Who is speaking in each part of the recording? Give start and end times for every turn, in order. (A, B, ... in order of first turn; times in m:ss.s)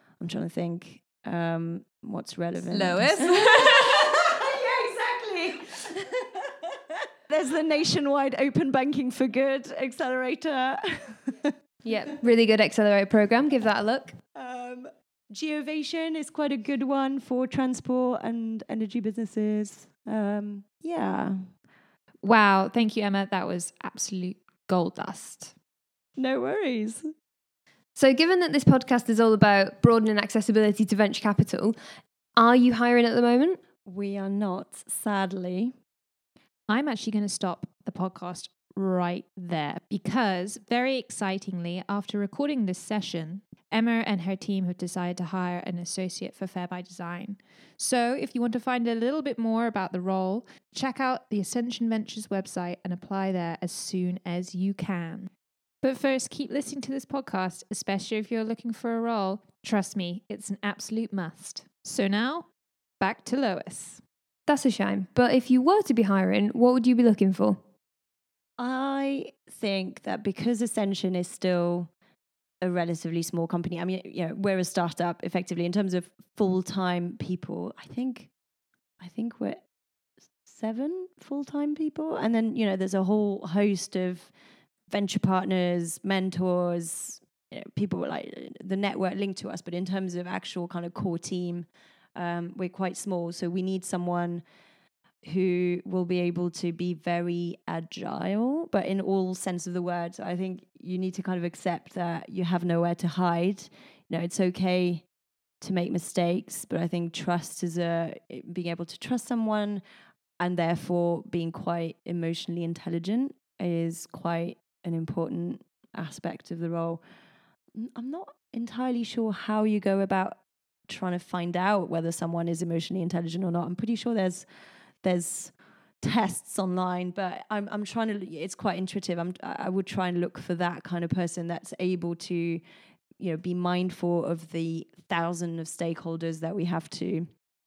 0:00.2-0:11.6 A
0:02.7-0:04.0 B
0:11.8-0:14.2 C
0:14.3-0:21.5 A
0:22.2-0:25.5 B
0:26.2-0:27.1 A
0:28.0-0:31.8 C
0:32.4-0:33.6 C
0:33.8-0:35.7 A
0:36.7-0:55.3 B
0:55.8-1:02.5 B
1:03.0-1:04.0 B
1:04.5-1:07.6 C
1:08.6-1:11.9 A
1:12.6-1:18.3 A
1:19.0-1:19.6 A
1:20.4-1:24.3 A
1:24.9-1:34.4 A
1:35.2-1:45.1 A
1:45.6-1:49.8 A
1:50.4-1:57.0 A
1:57.7-2:04.5 A
2:05.0-2:12.6 A
2:13.2-2:17.3 A